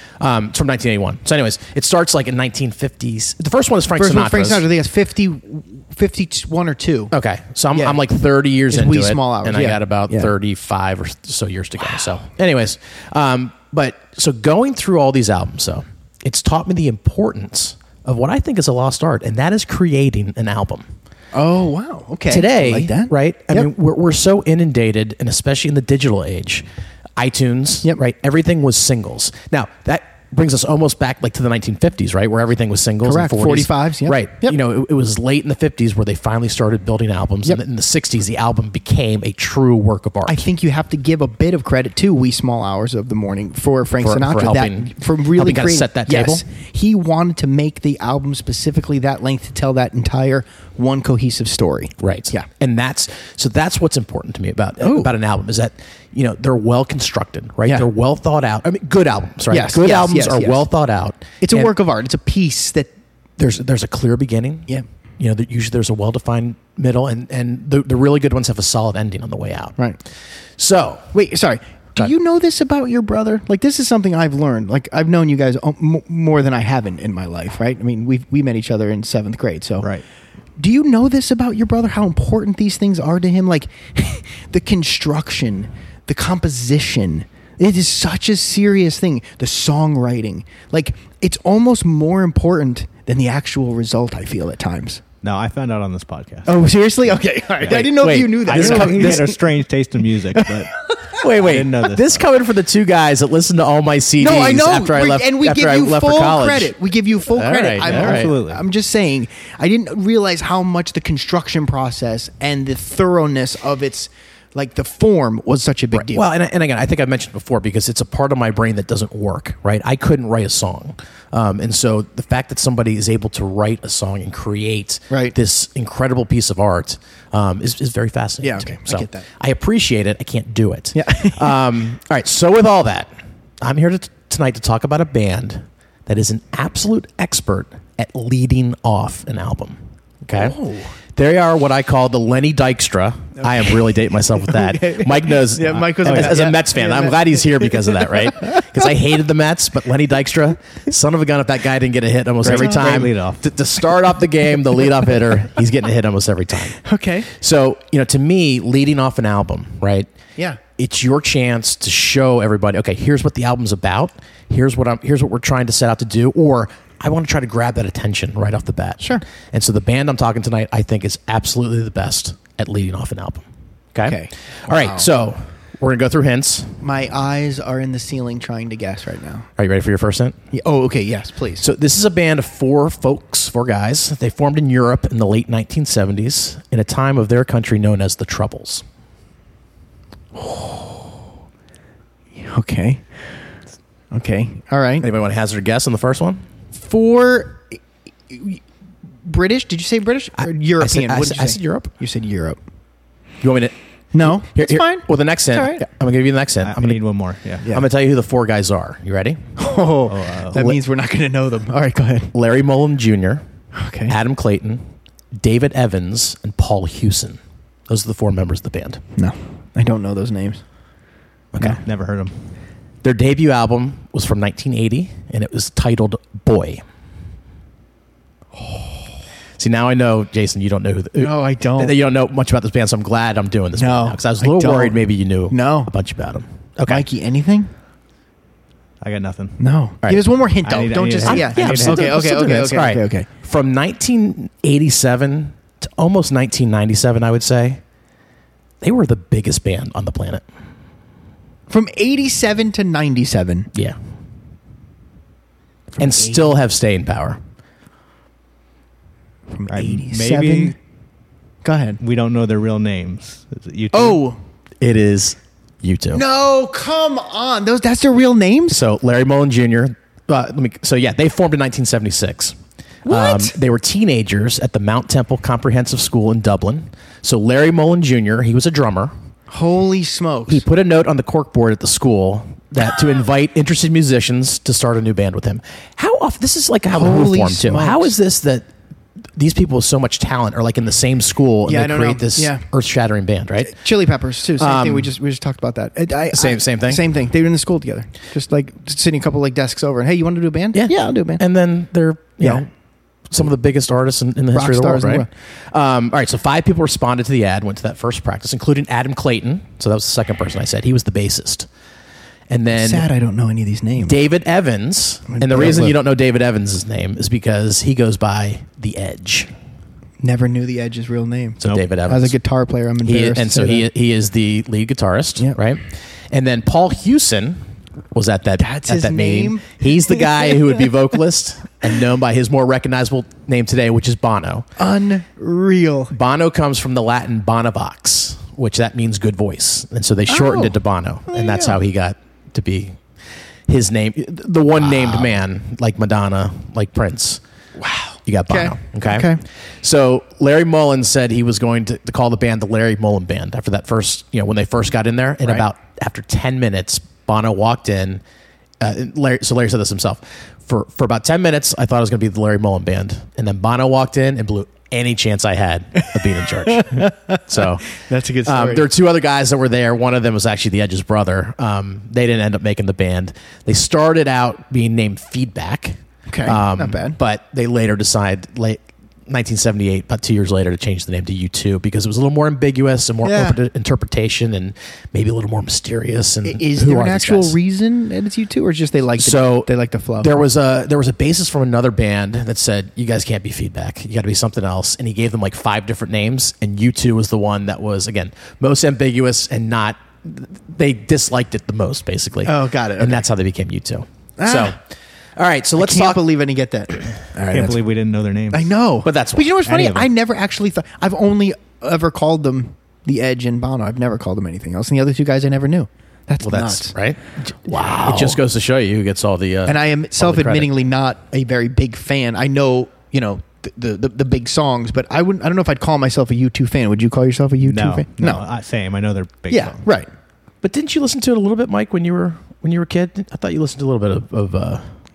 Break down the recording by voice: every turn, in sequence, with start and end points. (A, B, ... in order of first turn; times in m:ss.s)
0:00.2-0:04.7 A
0:04.0-0:07.1 B
0:07.1-0:20.9 A
0:07.7-0:08.0 B
0:08.7-0:10.3 B
0:21.3-0:23.7 B
0:22.3-0:26.6 A
0:27.2-0:40.4 A
0:33.0-0:34.6 B
0:40.2-0:52.5 B
0:44.0-0:46.4 A
0:52.0-1:01.8 A
0:54.8-0:55.1 B
0:59.5-1:00.6 B
1:01.4-1:02.9 B
1:03.4-1:09.8 A
1:10.6-1:11.1 A
1:11.1-1:19.9 B
1:20.6-1:35.0 B
1:35.2-1:36.6 C
1:36.5-1:39.4 B
1:37.7-1:39.3 A
1:38.4-1:42.2 C
1:40.4-1:41.2 B
1:41.2-1:46.7 A
1:44.2-1:56.3 B
1:47.3-1:48.3 A
1:47.8-1:48.6 C
1:55.9-2:20.6 A
2:05.1-2:05.4 B
2:08.4-2:09.3 B
2:11.0-2:11.5 B
2:20.4-2:20.9 B
2:21.2-2:36.8 A
2:23.4-2:23.8 B
2:24.4-2:27.9 B
2:26.0-2:26.4 C
2:32.4-2:33.4 C
2:32.4-2:33.0 B
2:36.8-2:37.3 B
2:37.3-2:40.1 A
2:40.8-2:56.8 A
2:54.0-2:55.1 B
2:56.8-2:59.5 B
2:59.6-3:00.4 A
3:00.5-3:01.6 B
3:01.6-3:08.8 A
3:10.4-3:11.1 B
3:12.4-3:13.0 B
3:14.1-3:15.1 B
3:15.0-3:16.4 A
3:16.8-3:17.8 B
3:18.3-3:18.6 B
3:19.2-3:22.6 B
3:20.4-3:21.9 A
3:23.4-3:27.0 A
3:24.1-3:25.9 B
3:26.6-3:27.7 C
3:27.7-3:29.4 A
3:29.6-3:32.3 B
3:30.1-3:30.8 C
3:32.3-3:33.4 A
3:33.8-3:34.2 B
3:34.1-3:39.0 A
3:39.2-3:40.6 B
3:41.5-3:41.8 A
3:41.6-3:42.3 C
3:43.0-3:46.8 A
3:48.6-3:49.0 B
3:49.6-3:57.1 A
3:51.2-3:52.0 B
3:53.8-3:55.9 B
3:56.9-3:57.7 B
3:59.0-3:59.6 C
3:59.6-4:03.3 B
4:00.6-4:02.3 C
4:01.2-4:07.8 A
4:08.8-4:10.4 A
4:11.7-4:13.7 B
4:16.0-4:16.5 B
4:16.0-4:17.4 A
4:19.5-4:20.8 B
4:19.7-4:20.8 C
4:21.6-4:22.0 B
4:22.0-4:24.2 C
4:23.9-4:24.4 B
4:24.8-4:26.2 A
4:26.1-4:28.8 B
4:28.7-4:39.1 A
4:33.1-4:33.6 B
4:39.5-4:40.6 B
4:40.5-4:48.7 A
4:46.9-4:48.1 B
4:49.4-4:53.8 A
4:51.7-4:52.6 B
4:53.6-5:01.4 B
4:54.6-4:55.1 A
4:56.3-4:57.0 A
5:00.7-5:02.7 A
5:02.4-5:02.6 B
5:03.3-5:11.7 A
5:04.5-5:05.3 B
5:12.5-5:13.1 A
5:12.7-5:14.2 B
5:14.0-5:19.5 A
5:15.3-5:16.0 B
5:20.2-5:23.9 B
5:21.6-5:22.4 A
5:23.0-5:34.7 A
5:28.6-5:30.5 B
5:34.8-5:36.1 B
5:36.1-5:43.0 A
5:40.3-5:40.8 B
5:41.3-5:41.8 B
5:43.7-5:47.4 A
5:47.8-5:49.4 B
5:48.3-5:58.2 A
5:58.8-6:07.9 A
6:06.7-6:08.9 B
6:08.4-6:27.6 A
6:16.3-6:17.2 B
6:23.2-6:23.6 B
6:26.4-6:30.4 B
6:29.2-6:29.7 A
6:30.2-6:44.8 A
6:42.4-6:43.2 B
6:44.4-6:44.7 B
6:45.4-6:46.2 A
6:45.8-6:47.8 B
6:47.5-6:48.7 C
6:48.5-6:57.0 B
6:49.0-6:49.6 A
6:49.6-6:50.1 C
6:56.4-7:00.7 A
6:57.7-6:58.4 B
6:59.7-7:08.4 B
7:07.6-7:09.8 C
7:09.5-7:10.1 B
7:10.6-7:15.0 A